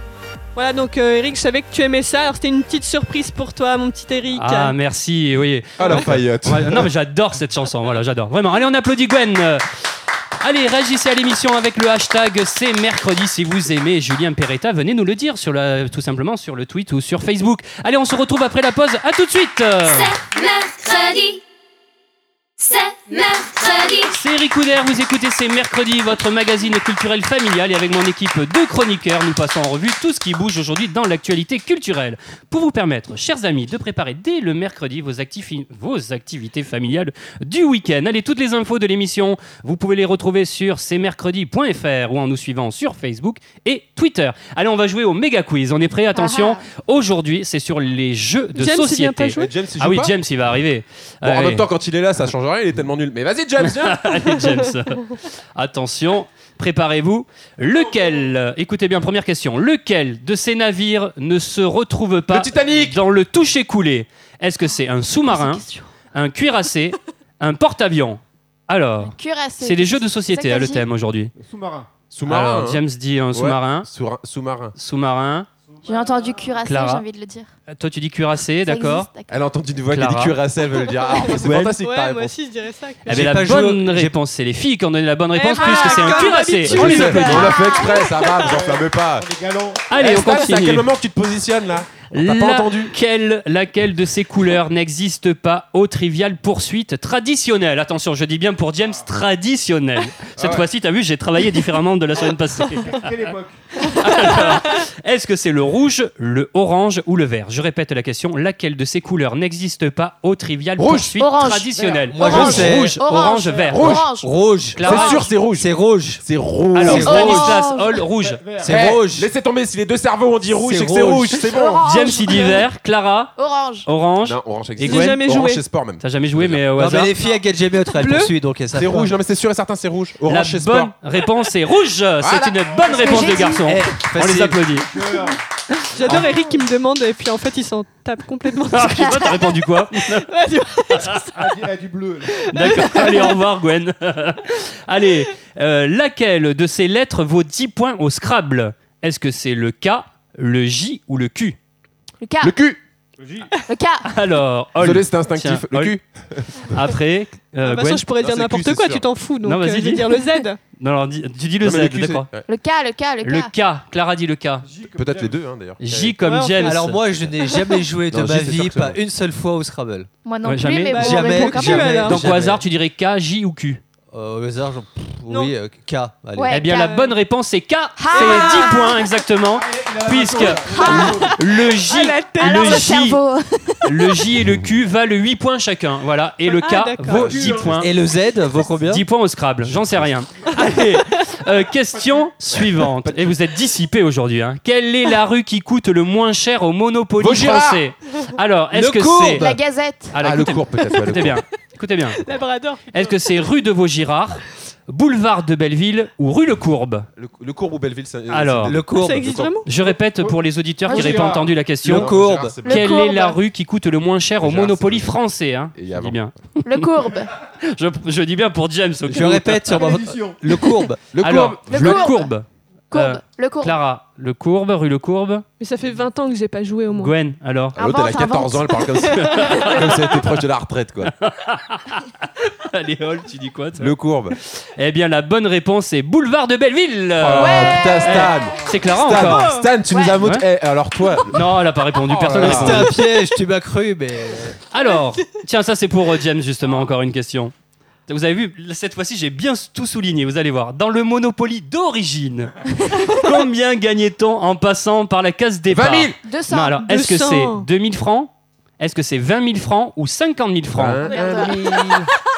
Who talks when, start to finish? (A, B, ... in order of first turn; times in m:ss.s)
0:00.6-0:04.8 A
0:04.4-0:09.6 B
0:05.8-0:06.9 C
0:10.4-0:20.1 B
0:19.8-0:21.4 D
0:22.6-0:24.1 D
0:24.1-0:51.7 B
0:46.1-0:46.7 E
0:48.6-0:49.5 A
0:49.4-0:50.2 C
0:51.2-0:54.4 C
0:53.6-1:11.3 B
1:02.3-1:03.0 C
1:05.3-1:05.9 E
1:09.0-1:10.9 E
1:11.4-1:11.9 F
1:12.1-1:12.8 C
1:12.3-1:13.9 B
1:13.3-1:14.8 C
1:14.8-1:15.5 B
1:15.7-1:16.7 F
1:15.8-1:17.5 E
1:16.6-1:17.0 B
1:17.7-1:19.1 B
1:18.6-1:19.3 E
1:19.3-1:22.3 C
1:19.9-1:20.4 B
1:21.0-1:23.2 A
1:21.4-1:21.8 B
1:23.1-1:24.2 G
1:23.1-1:27.6 B
1:25.4-1:28.6 A
1:25.6-1:28.3 E
1:26.7-1:29.3 C
1:28.4-1:29.9 F
1:29.9-1:30.9 B
1:30.0-1:32.9 C
1:32.1-1:43.0 B
1:40.4-1:40.7 C
1:42.7-1:43.6 F
1:43.9-1:54.0 B
1:50.8-1:51.1 C
1:51.2-1:54.3 E
1:51.7-1:52.2 F
1:52.1-1:53.5 G
1:53.7-1:54.1 C
1:54.1-1:56.2 G
1:54.8-1:55.2 B
1:54.8-1:57.5 C
1:54.9-1:55.2 E
1:56.7-1:58.4 B
1:56.8-1:57.5 G
1:57.0-1:58.0 E
1:58.2-1:58.9 F
1:58.6-1:59.3 G
1:58.7-2:01.9 C
2:00.5-2:01.4 G
2:01.4-2:02.7 E
2:01.8-2:05.2 B
2:03.4-2:03.9 E
2:04.2-2:06.6 C
2:04.8-2:05.6 A
2:06.0-2:07.1 B
2:06.8-2:09.2 G
2:07.9-2:08.3 A
2:08.7-2:10.9 C
2:10.3-2:14.9 B
2:12.2-2:12.6 C
2:12.7-2:13.5 F
2:12.9-2:13.7 E
2:13.6-2:14.6 G
2:14.7-2:15.4 F
2:15.9-2:19.6 A
2:18.7-2:20.3 B
2:20.2-2:21.5 A
2:20.9-2:21.2 B
2:21.3-2:22.5 F
2:22.4-2:31.6 B
2:22.4-2:23.4 A
2:32.2-2:32.6 E
2:32.4-2:32.8 C
2:33.2-2:33.6 F
2:33.7-2:34.1 E
2:34.0-2:36.0 B
2:34.8-2:36.8 C
2:36.6-2:38.0 B
2:37.6-2:40.6 A
2:38.2-2:39.0 C
2:39.4-2:40.1 B
2:40.8-2:42.3 B
2:41.6-2:42.5 C
2:42.5-2:43.5 E
2:43.2-2:44.7 B
2:44.6-2:45.5 F
2:44.9-2:46.2 C
2:45.8-2:47.0 B
2:46.2-2:46.8 A
2:46.6-2:50.1 G
2:48.1-2:49.0 C
2:50.2-2:52.1 E
2:50.4-2:53.8 B
2:50.9-2:52.2 A
2:50.9-2:52.6 G
2:54.1-2:56.6 G
2:55.3-2:55.5 A
2:56.4-2:57.1 E
2:56.5-3:03.2 B
2:58.0-2:59.1 E
2:58.1-2:59.0 A
2:59.5-3:01.4 F
3:00.6-3:01.3 E
3:01.2-3:02.9 A
3:02.4-3:04.2 E
3:03.8-3:07.9 B
3:06.5-3:07.3 A
3:07.1-3:07.8 C
3:07.2-3:07.7 F
3:07.7-3:09.1 G
3:08.8-3:19.5 B
3:09.7-3:10.1 C
3:12.0-3:12.3 F
3:12.8-3:13.2 C
3:17.2-3:17.8 C
3:18.7-3:19.6 G
3:19.4-3:20.2 E
3:20.1-3:22.3 B
3:20.2-3:21.4 C
3:22.2-3:23.2 A
3:22.9-3:27.1 B
3:27.2-3:29.5 C
3:28.3-3:28.8 B
3:28.6-3:29.4 G
3:29.0-3:29.7 A
3:29.7-3:32.1 B
3:29.7-3:31.6 F
3:30.9-3:31.2 E
3:31.8-3:32.6 G
3:31.9-3:32.9 C
3:32.6-3:33.4 E
3:32.7-3:39.9 B
3:34.4-3:35.1 C
3:35.8-3:36.2 C
3:36.6-3:37.3 E
3:39.1-3:41.0 G
3:39.7-3:40.5 F
3:41.1-3:42.2 C
3:41.2-3:45.4 B
3:41.7-3:42.3 E
3:42.9-3:43.8 E
3:45.6-3:47.2 A
3:46.9-3:47.8 B
3:47.8-3:51.1 C
3:47.8-3:48.9 E
3:49.1-3:49.7 A
3:49.2-3:50.0 B
3:51.2-3:54.0 B
3:53.8-3:54.4 C
3:54.5-3:59.6 B
3:57.2-4:01.4 C
3:57.4-3:58.4 E
3:59.2-3:59.7 A
3:59.9-4:00.2 E
4:00.2-4:00.4 B
4:01.3-4:03.0 B
4:02.0-4:03.0 C
4:02.4-4:04.6 G
4:04.7-4:07.5 B
4:04.8-4:05.2 A
4:08.1-4:21.0 B
4:15.7-4:16.2 C
4:16.2-4:16.8 E
4:16.9-4:17.7 A
4:20.7-4:22.1 C
4:21.0-4:21.8 E